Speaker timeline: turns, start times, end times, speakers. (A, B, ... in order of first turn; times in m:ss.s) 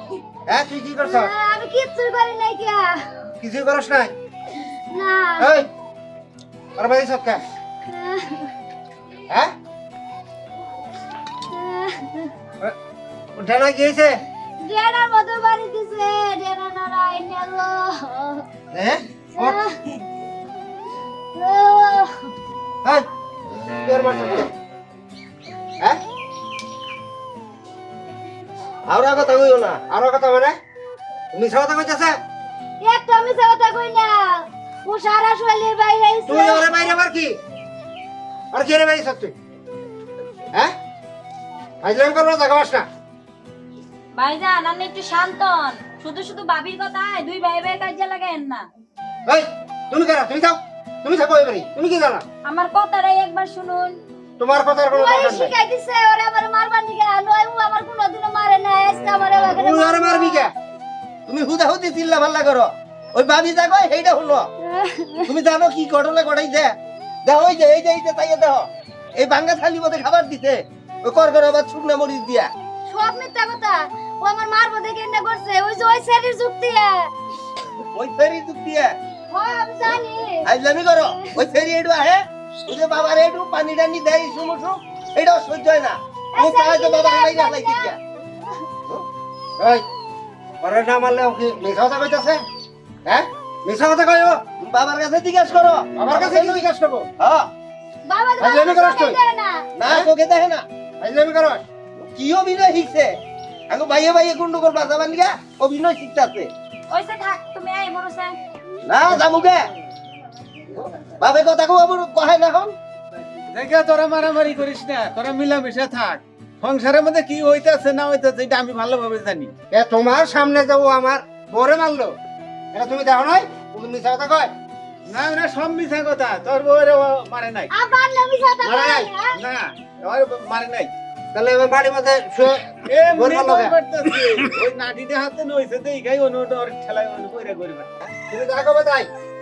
0:00.5-0:01.3 A
0:01.0-0:03.1 B
0:03.4-0:04.1 A
0:04.9-0:05.6 B
0:05.4-0:05.7 A
0:06.8-0:07.4 A
0:07.8-0:08.5 B
0:11.5-0:12.3 B
0:13.4-0:14.2 A
0:14.6-0:18.4 B
0:18.7-0:19.6 A
0:19.4-0:19.8 B
0:21.4-0:22.3 B
0:23.8-0:24.5 A
0:28.9-0:29.8 C
0:29.9-0:30.6 A
0:31.3-0:32.2 A
0:32.8-0:36.7 B
0:36.3-0:37.4 A
0:38.5-0:39.3 A
0:41.8-0:42.8 A
0:44.1-0:48.7 D
0:49.3-0:52.2 A
0:52.5-0:54.0 D
0:54.4-0:55.5 A
0:54.9-1:00.5 B
0:59.5-1:00.5 A
1:01.3-1:04.5 C
1:04.6-1:05.3 B
1:05.3-1:12.5 C
1:12.9-1:17.1 B
1:17.9-1:19.0 C
1:19.3-1:20.5 B
1:19.9-1:28.0 C
1:26.4-1:28.6 B
1:29.6-1:29.8 A
1:30.6-1:32.4 A
1:33.0-1:34.4 A
1:34.6-1:36.7 C
1:36.0-1:37.1 A
1:37.2-1:37.5 C
1:38.0-1:39.6 B
1:38.4-1:39.2 A
1:39.8-1:40.6 C
1:39.8-1:40.1 A
1:41.0-1:41.6 A
1:42.0-1:43.2 C
1:43.7-1:46.5 C
1:46.9-1:48.4 D
1:48.8-1:49.7 C
1:50.7-1:52.8 C
1:53.5-1:59.5 E
1:59.7-2:02.2 A
2:02.7-2:04.5 A
2:05.1-2:07.7 E
2:07.7-2:09.4 B
2:08.6-2:09.1 A
2:09.3-2:10.9 E
2:11.3-2:13.8 A
2:12.9-2:17.9 E
2:18.3-2:19.1 A